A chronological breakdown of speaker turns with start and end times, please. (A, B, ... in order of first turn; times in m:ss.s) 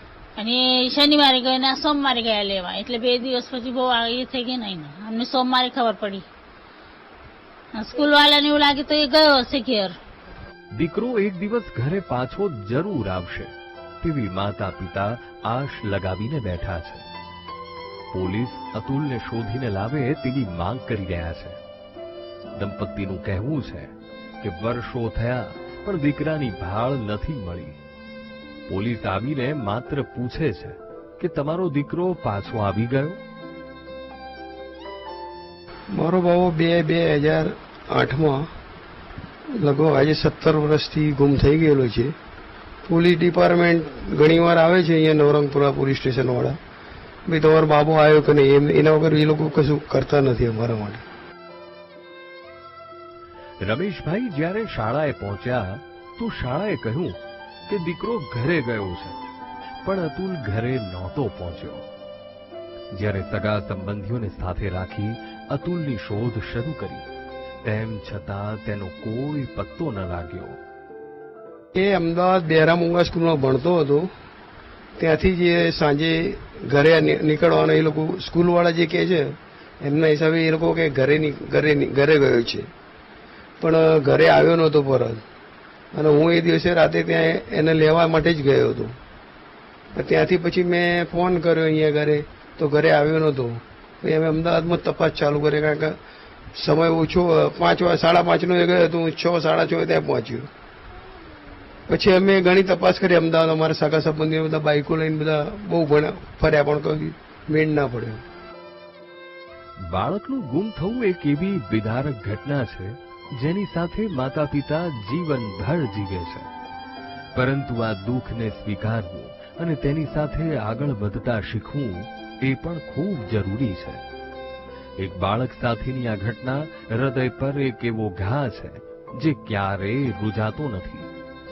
0:00.4-0:06.2 A
0:07.8-0:10.0 A
0:10.8-0:17.1 B
0:18.1-0:21.6 B
0:22.6-0:27.8 B
0:28.7-0:33.2 B
0:35.9-0:38.5 C
0:39.5-0:42.2 C
0:42.8-0:46.6 C
0:47.3-0:51.0 C
0:53.6-0:59.2 B
0:59.8-1:01.9 B
1:02.9-1:07.1 B
1:07.6-1:10.6 B
1:11.8-1:14.1 C
1:15.0-1:22.7 C
1:23.6-1:25.2 C
1:25.9-1:29.0 C
1:29.9-1:36.0 C
1:36.6-1:40.5 C
1:41.9-1:48.2 C
1:49.9-1:56.5 B
1:57.4-2:04.0 B
2:05.0-2:11.1 B